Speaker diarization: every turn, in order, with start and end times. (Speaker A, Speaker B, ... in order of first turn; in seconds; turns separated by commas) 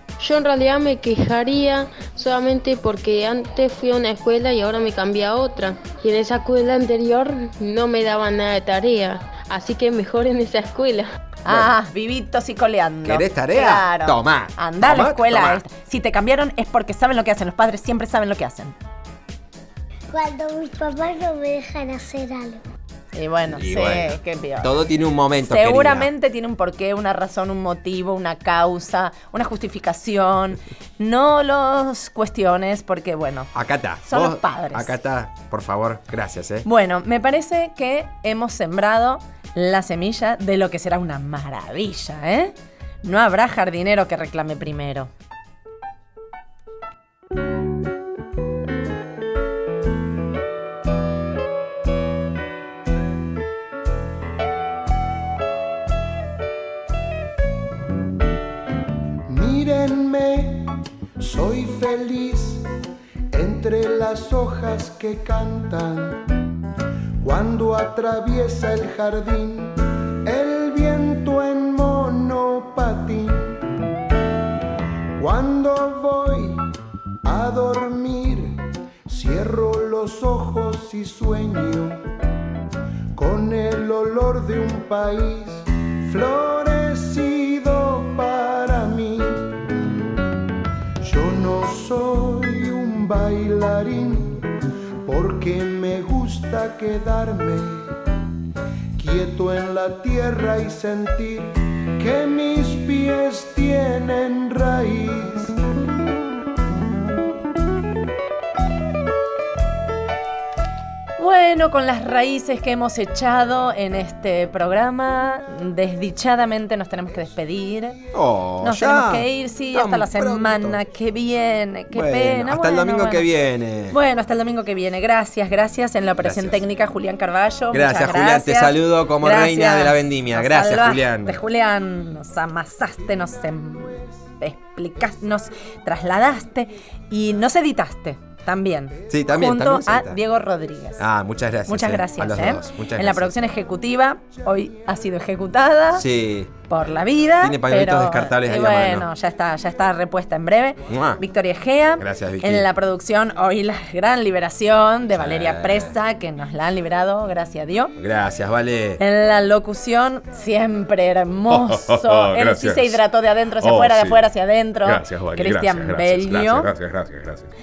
Speaker A: 0.2-11.1, Speaker B: 11.4-18.7, Speaker C: 11.5-11.7, Speaker C: 13.1-15.6, Speaker D: 20.2-22.5, Speaker B: 23.1-24.8, Speaker C: 23.5-26.1, Speaker B: 25.4-33.5, Speaker C: 33.5-36.6, Speaker B: 34.1-34.9, Speaker B: 36.6-45.1, Speaker E: 59.3-60.6, Speaker E: 61.2-62.6, Speaker E: 63.3-66.4, Speaker E: 67.2-73.6, Speaker E: 75.2-76.6, Speaker E: 77.2-82.0, Speaker E: 83.1-89.5, Speaker E: 91.0-94.5, Speaker E: 95.0-97.9, Speaker E: 99.0-105.5, Speaker B: 111.2-118.0, Speaker C: 118.1-120.8, Speaker B: 118.6-123.2, Speaker C: 121.9-124.0, Speaker B: 123.9-141.1, Speaker C: 126.2-126.5, Speaker C: 127.7-131.4, Speaker C: 139.1-140.2, Speaker C: 141.0-143.3, Speaker B: 141.7-146.0, Speaker C: 145.9-146.5, Speaker B: 146.7-157.9, Speaker C: 147.4-149.1, Speaker C: 150.9-151.2, Speaker C: 152.0-152.7, Speaker C: 155.1-155.9, Speaker C: 158.0-159.0, Speaker B: 159.0-166.7, Speaker C: 161.5-163.0, Speaker C: 163.6-164.2, Speaker C: 164.8-167.5